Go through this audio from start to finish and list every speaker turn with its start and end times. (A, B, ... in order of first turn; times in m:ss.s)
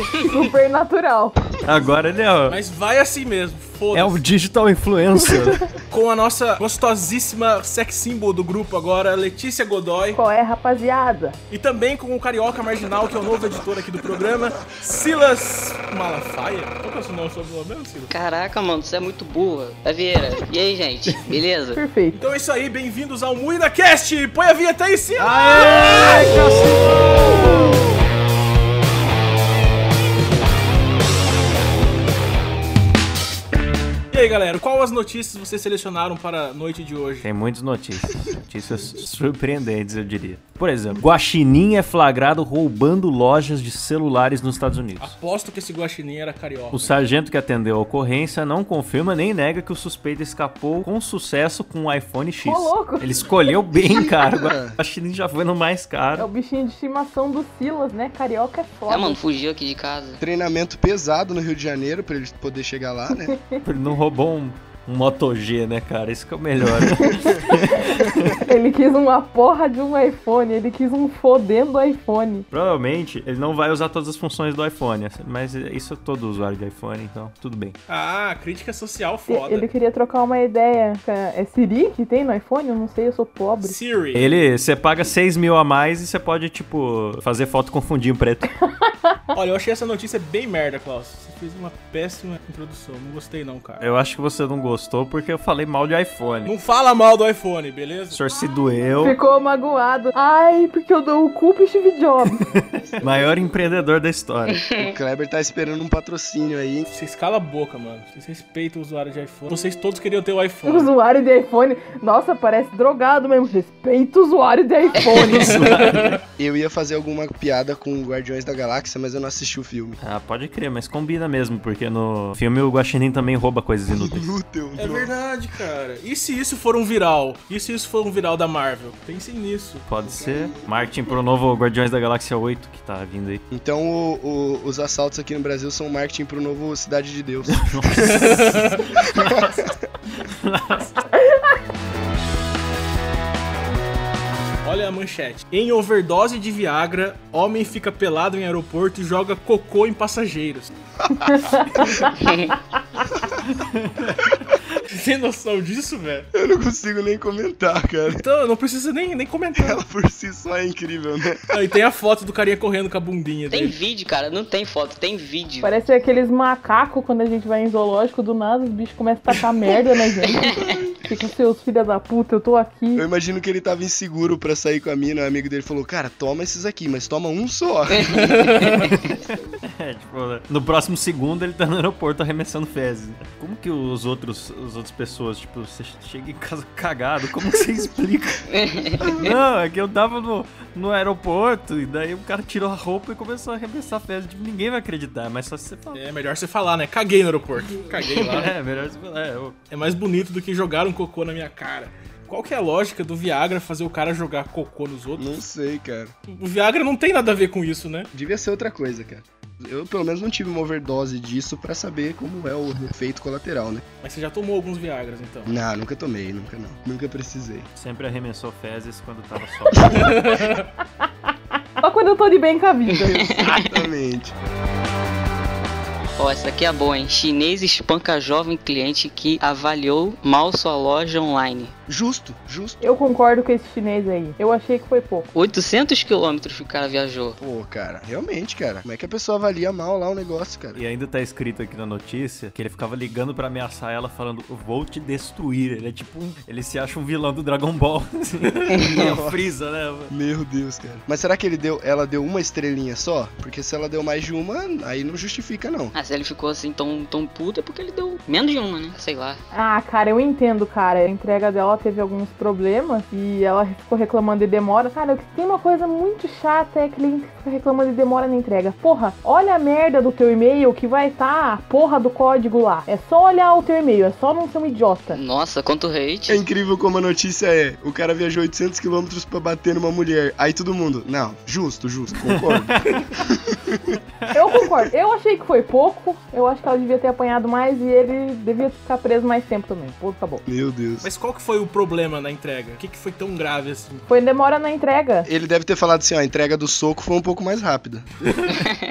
0:00.2-0:01.4 A
0:01.6-0:02.6 B
0:02.4-0:04.2 C
0:03.9-0:05.7 B
0:05.8-0:10.2 C
0:10.1-0:11.4 A
0:11.5-0:18.1 C
0:18.1-0:21.8 D
0:21.0-0:21.4 B
0:21.7-0:22.2 A
0:22.1-0:26.5 C
0:25.2-0:27.9 B
0:34.1-0:37.3 C
0:37.2-0:45.1 B
0:45.0-0:47.0 C
0:46.7-0:56.3 B
0:52.4-0:53.1 A
0:53.7-0:54.8 E
0:56.2-0:59.2 A
0:58.9-1:00.2 D
1:00.2-1:03.4 E
1:03.6-1:08.4 B
1:07.0-1:12.5 A
1:12.5-1:17.8 B
1:17.9-1:19.7 C
1:19.3-1:23.8 A
1:23.6-1:24.3 C
1:24.1-1:28.5 B
1:28.7-1:29.2 A
1:29.3-1:33.8 C
1:33.8-1:36.5 B
1:36.4-1:38.2 C
1:38.1-1:39.2 B
1:39.0-1:42.4 A
1:43.0-1:44.6 B
1:44.8-1:46.9 E
1:46.9-1:50.9 C
1:50.6-1:55.7 A
1:55.1-1:56.2 B
1:55.5-1:56.2 C
1:56.4-2:00.0 E
2:00.0-2:04.3 B
2:03.9-2:05.1 E
2:04.8-2:09.8 C
2:09.9-2:13.4 B
2:10.1-2:10.7 E
2:13.5-2:18.2 E
2:17.5-2:21.0 B
2:18.2-2:18.8 C
2:19.2-2:19.7 E
2:24.6-2:30.7 C
2:31.2-2:32.1 A
2:33.5-2:34.2 B
2:34.9-2:36.3 C
2:36.3-2:38.2 E
2:38.1-2:39.8 C
2:39.5-2:41.5 E
2:41.5-2:43.8 C
2:43.5-2:45.7 D
2:45.6-2:53.0 A
2:50.6-2:50.9 E
2:52.9-2:58.4 E
2:58.1-2:59.0 C
2:58.8-3:08.5 B
3:08.6-3:09.2 D
3:09.1-3:16.0 B
3:15.9-3:18.5 C
3:18.1-3:19.6 B
3:19.7-3:25.4 C
3:25.2-3:26.1 E
3:26.3-3:28.1 C
3:28.1-3:33.8 E
3:34.0-3:35.6 C
3:35.5-3:37.7 E
3:37.8-3:40.4 B
3:39.9-3:40.7 C
3:41.8-3:43.3 A
3:42.9-3:43.7 D
3:43.0-3:44.3 E
3:46.2-3:51.7 D
3:51.9-3:52.8 E
3:52.8-3:55.3 A
3:55.3-3:57.4 D
3:57.4-4:00.8 E
4:00.7-4:10.1 B
4:08.8-4:09.5 E
4:10.1-4:15.9 E
4:15.9-4:19.4 D
4:19.5-4:35.2 A
4:35.1-4:36.4 D
4:36.3-4:43.8 E
4:42.2-4:43.1 B
4:44.3-4:50.4 A
4:50.4-4:51.1 E
4:51.0-4:54.1 C
4:54.1-4:55.3 A
4:55.2-4:58.1 E
4:58.3-4:58.6 B